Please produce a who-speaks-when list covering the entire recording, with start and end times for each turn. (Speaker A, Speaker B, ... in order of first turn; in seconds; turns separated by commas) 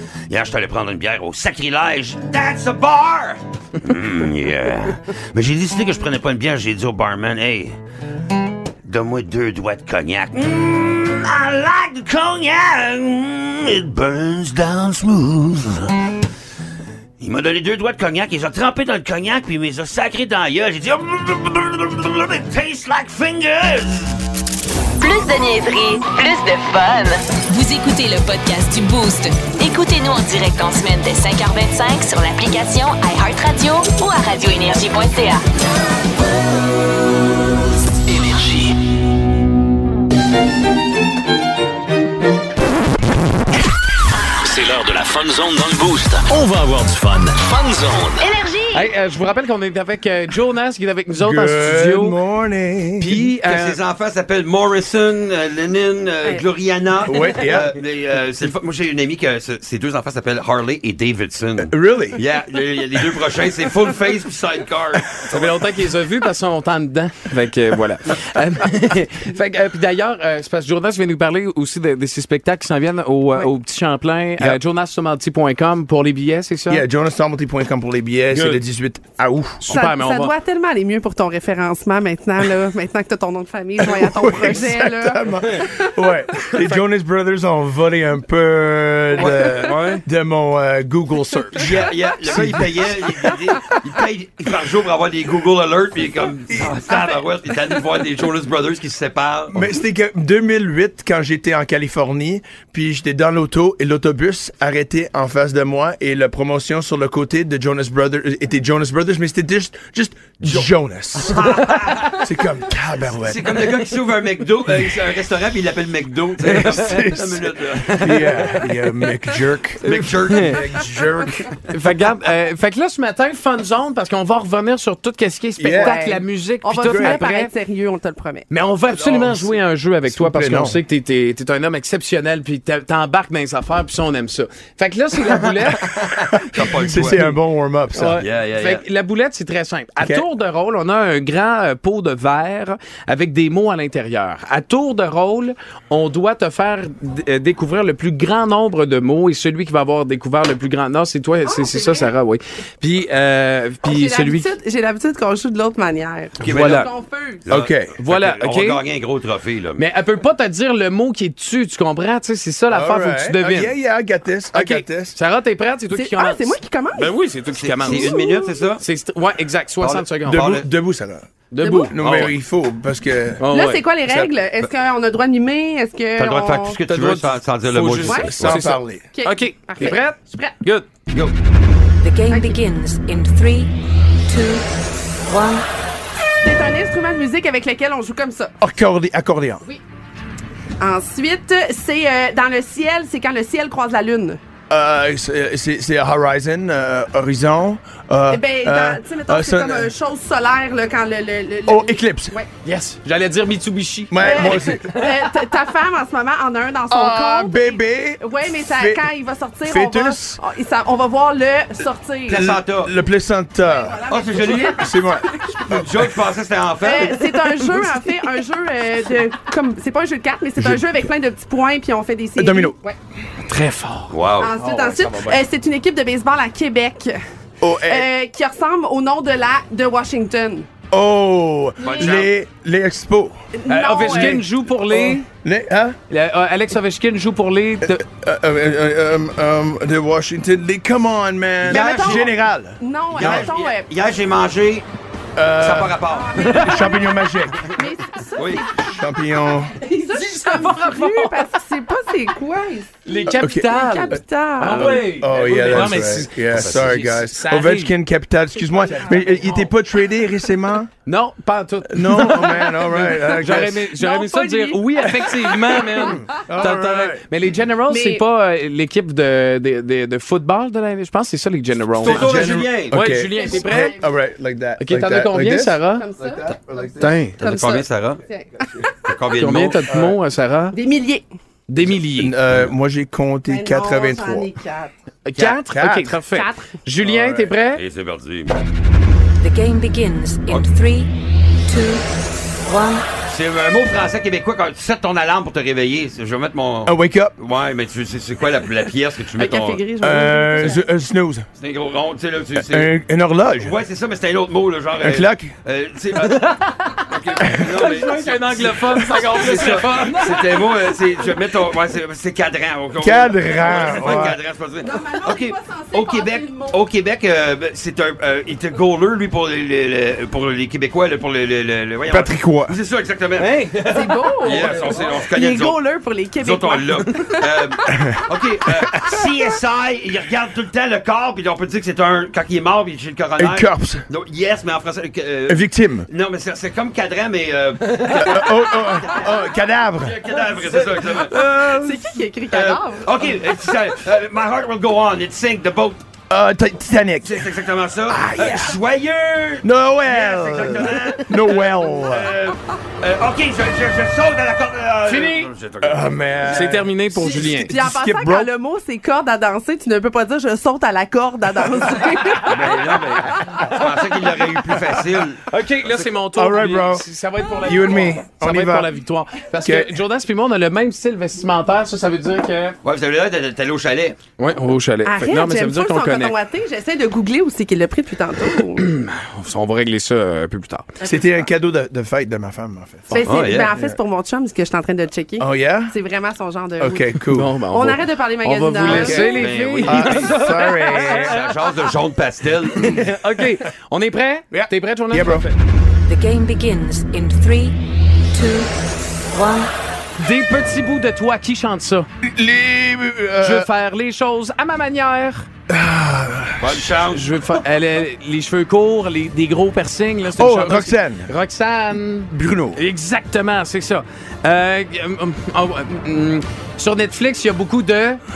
Speaker A: 0.3-7.8, Speaker A: 8.8-16.0, Speaker A: 17.2-24.2, Speaker B: 25.0-35.4, Speaker C: 44.5-48.1, Speaker A: 45.7-46.2, Speaker B: 48.2-48.9, Speaker D: 48.7-52.2, Speaker E: 51.2-53.3, Speaker D: 53.0-53.8, Speaker A: 53.4-65.7, Speaker E: 57.1-57.7, Speaker E: 61.6-62.2, Speaker D: 65.3-76.8, Speaker E: 76.7-79.7, Speaker D: 78.3-78.6, Speaker D: 79.7-80.3, Speaker F: 79.7-85.8, Speaker E: 83.8-93.7, Speaker A: 89.2-90.0, Speaker A: 91.7-99.6, Speaker E: 96.5-96.9, Speaker E: 99.5-111.5, Speaker A: 110.4-110.7, Speaker A: 111.2-112.1, Speaker E: 112.1-113.6, Speaker A: 113.2-118.5, Speaker D: 116.5-117.2, Speaker E: 116.8-117.3, Speaker E: 118.0-121.4, Speaker D: 119.8-120.6, Speaker A: 119.9-121.5, Speaker D: 121.7-127.5, Speaker E: 125.6-126.0, Speaker F: 125.7-128.5, Speaker E: 126.8-127.2, Speaker D: 128.5-135.9, Speaker E: 128.9-130.8, Speaker A: 135.4-137.4, Speaker E: 136.6-138.2, Speaker D: 137.9-154.5, Speaker A: 138.2-138.8, Speaker E: 140.0-140.3, Speaker F: 151.4-152.1, Speaker F: 153.8-157.6, Speaker A: 156.4-156.8, Speaker D: 156.4-156.9, Speaker A: 157.4-159.8, Speaker E: 157.5-158.0, Speaker D: 158.0-158.8, Speaker D: 159.8-163.7, Speaker E: 162.7-165.2, Speaker D: 164.5-168.2, Speaker F: 165.9-167.1, Speaker A: 167.5-168.8, Speaker F: 167.8-168.7, Speaker D: 168.8-170.5, Speaker A: 169.8-170.7, Speaker E: 170.2-171.3, Speaker D: 171.5-172.3, Speaker F: 171.6-172.0, Speaker E: 171.9-173.4, Speaker A: 172.0-172.4, Speaker D: 173.4-173.8, Speaker F: 173.5-176.8, Speaker E: 174.1-174.3, Speaker A: 176.2-178.5, Speaker D: 176.9-180.9, Speaker F: 178.0-178.4, Speaker E: 178.3-179.1, Speaker F: 179.1-180.5, Speaker A: 181.1-181.4, Speaker F: 182.3-182.6, Speaker G: 182.4-183.3, Speaker F: 185.3-185.6, Speaker F: 186.4-188.5, Speaker E: 188.6-189.6, Speaker F: 190.8-194.4, Speaker E: 194.7-199.9, Speaker F: 198.3-202.5, Speaker E: 201.7-202.4, Speaker D: 202.6-205.2, Speaker E: 204.1-204.9, Speaker F: 204.2-212.5, Speaker E: 206.9-209.1, Speaker E: 209.6-210.4, Speaker E: 212.3-214.1, Speaker A: 212.3-212.9, Speaker F: 213.6-215.7, Speaker A: 214.1-214.8, Speaker E: 214.6-215.9, Speaker A: 215.7-217.6, Speaker F: 216.8-223.0, Speaker E: 220.6-221.0, Speaker E: 222.4-222.8, Speaker D: 223.5-225.4, Speaker A: 224.1-224.5, Speaker F: 224.4-227.2, Speaker E: 227.6-228.1, Speaker F: 227.9-230.7, Speaker E: 230.9-233.4, Speaker A: 231.8-232.3, Speaker F: 231.8-232.2, Speaker F: 233.6-234.4, Speaker D: 233.7-235.2, Speaker E: 234.0-236.0, Speaker D: 236.1-238.0, Speaker E: 237.8-243.5, Speaker A: 241.7-242.1, Speaker F: 241.7-243.9, Speaker A: 243.2-244.9, Speaker E: 245.4-247.6, Speaker A: 245.6-246.8, Speaker F: 246.1-249.2, Speaker A: 248.4-248.8, Speaker E: 248.9-249.8, Speaker D: 249.9-251.5, Speaker F: 249.9-254.9, Speaker D: 253.1-257.9, Speaker E: 253.3-253.7, Speaker A: 254.7-255.2, Speaker E: 255.1-260.9, Speaker A: 256.5-257.0, Speaker F: 258.6-259.6, Speaker D: 261.1-272.4, Speaker E: 261.9-263.9, Speaker F: 264.0-266.1, Speaker E: 265.2-267.2, Speaker F: 267.9-268.2, Speaker A: 272.0-273.0, Speaker E: 272.0-277.2, Speaker D: 272.9-274.1, Speaker F: 273.4-274.0, Speaker D: 274.8-276.0, Speaker F: 275.9-276.5, Speaker D: 277.0-277.4, Speaker A: 277.3-278.2, Speaker F: 277.4-278.9, Speaker E: 278.6-278.9, Speaker A: 279.1-279.9, Speaker D: 279.4-280.8, Speaker E: 279.9-280.2, Speaker F: 280.7-281.2, Speaker D: 281.7-282.4, Speaker E: 282.2-284.5, Speaker A: 282.5-282.8, Speaker F: 283.5-284.9, Speaker D: 285.3-287.8, Speaker E: 285.6-286.2, Speaker F: 286.3-286.7, Speaker A: 287.0-288.6, Speaker G: 289.4-290.6, Speaker D: 289.5-291.0, Speaker A: 293.2-299.8, Speaker E: 296.9-297.3, Speaker F: 299.3-300.9, Speaker E: 300.0-301.5, Speaker A: 301.6-302.9, Speaker E: 302.6-303.8, Speaker A: 303.6-306.4, Speaker E: 305.0-305.5, Speaker D: 306.2-310.7, Speaker A: 307.1-323.6, Speaker E: 313.0-314.4, Speaker F: 314.8-316.8, Speaker E: 322.1-322.8, Speaker D: 323.4-324.9, Speaker F: 323.9-327.6, Speaker A: 324.4-325.8, Speaker A: 326.4-339.2, Speaker E: 327.9-328.2, Speaker E: 333.4-334.1, Speaker E: 335.5-336.1, Speaker D: 338.1-338.4, Speaker E: 338.1-340.3, Speaker A: 340.1-341.4, Speaker F: 341.2-343.3, Speaker E: 341.3-342.1, Speaker A: 342.5-346.0, Speaker E: 346.3-347.4, Speaker A: 347.2-356.7, Speaker E: 348.1-348.8, Speaker E: 349.6-352.4, Speaker D: 355.1-355.5, Speaker E: 355.8-358.5, Speaker D: 356.5-357.7, Speaker F: 357.2-363.6, Speaker A: 362.4-366.1, Speaker D: 365.5-372.8, Speaker E: 366.3-367.1, Speaker E: 367.6-368.9, Speaker E: 369.6-369.9, Speaker A: 372.8-374.2, Speaker D: 374.4-376.4, Speaker F: 375.1-378.9, Speaker D: 378.8-380.9, Speaker E: 381.0-384.0, Speaker F: 383.1-387.1, Speaker A: 383.2-383.7, Speaker E: 385.4-386.0, Speaker E: 386.8-387.6, Speaker D: 387.3-391.4, Speaker F: 387.7-389.5, Speaker E: 388.8-391.5, Speaker A: 389.3-392.9, Speaker D: 392.7-395.6, Speaker E: 394.5-395.5, Speaker D: 396.1-397.7, Speaker G: 398.4-398.6, Speaker D: 398.4-398.6, Speaker D: 399.4-402.1, Speaker E: 402.2-403.7, Speaker D: 403.4-405.5, Speaker E: 405.7-406.9, Speaker A: 406.6-407.2, Speaker D: 407.1-418.2, Speaker E: 410.4-411.3, Speaker E: 412.3-412.8